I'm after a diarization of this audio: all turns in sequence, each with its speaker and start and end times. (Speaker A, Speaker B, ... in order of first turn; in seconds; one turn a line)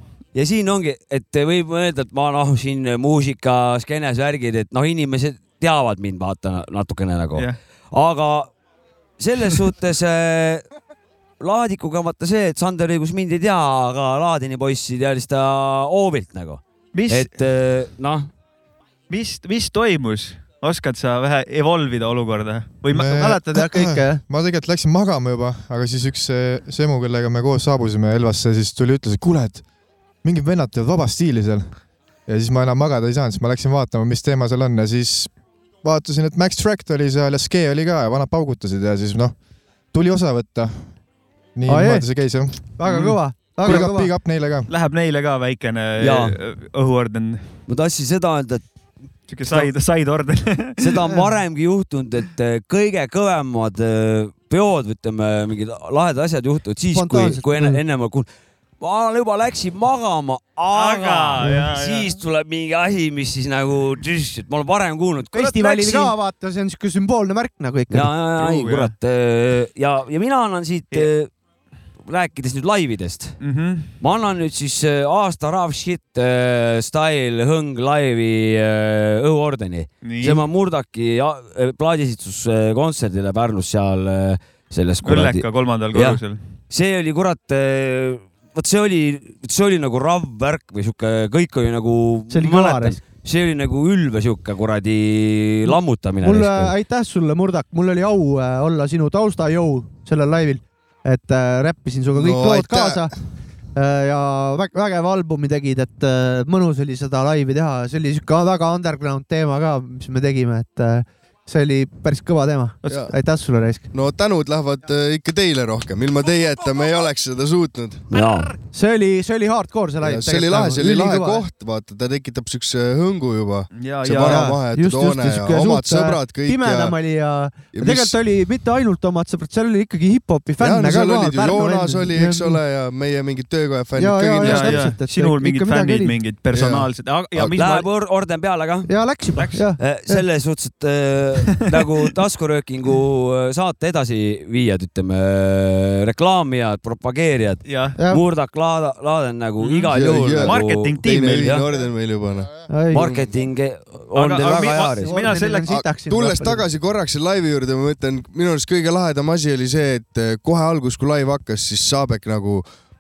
Speaker A: 0.3-8.5
Speaker A: 9.2-10.6
Speaker A: 11.4-18.3
Speaker B: 16.9-17.3
Speaker B: 19.1-23.3
Speaker C: 22.9-29.6
Speaker D: 23.1-24.2
Speaker C: 30.2-31.7
Speaker C: 32.3-35.3
Speaker C: 35.8-39.4
Speaker C: 39.9-40.9
Speaker C: 41.5-42.6
Speaker D: 41.7-42.1
Speaker D: 42.8-44.1
Speaker B: 42.9-43.2
Speaker C: 43.6-44.7
Speaker B: 44.7-47.6
Speaker A: 46.0-46.4
Speaker A: 47.7-48.6
Speaker B: 49.3-51.0
Speaker A: 50.8-58.3
Speaker D: 56.9-57.8
Speaker A: 58.8-66.1
Speaker B: 60.7-62.1
Speaker D: 65.3-68.1
Speaker A: 67.9-71.3
Speaker B: 68.4-68.9
Speaker A: 72.1-73.4
Speaker B: 73.4-73.9
Speaker A: 74.0-86.2
Speaker B: 80.0-80.4
Speaker B: 85.0-86.4
Speaker A: 86.7-96.7
Speaker D: 92.3-93.0
Speaker D: 95.7-103.1
Speaker E: 102.2-103.1
Speaker D: 103.8-113.9
Speaker E: 113.9-118.1
Speaker A: 118.1-118.6
Speaker D: 118.7-121.4
Speaker E: 120.0-127.0
Speaker B: 123.8-124.5
Speaker D: 124.2-132.6
Speaker E: 127.7-128.2
Speaker E: 130.6-134.9
Speaker D: 134.0-136.2
Speaker B: 134.4-137.9
Speaker E: 136.5-137.6
Speaker A: 137.6-138.9
Speaker D: 138.9-140.2
Speaker A: 139.8-151.7
Speaker B: 147.7-148.0
Speaker D: 148.0-148.2
Speaker B: 149.6-151.6
Speaker E: 149.9-152.6
Speaker D: 152.7-153.2
Speaker A: 152.9-155.2
Speaker B: 154.1-155.7
Speaker D: 155.0-156.6
Speaker E: 155.7-162.6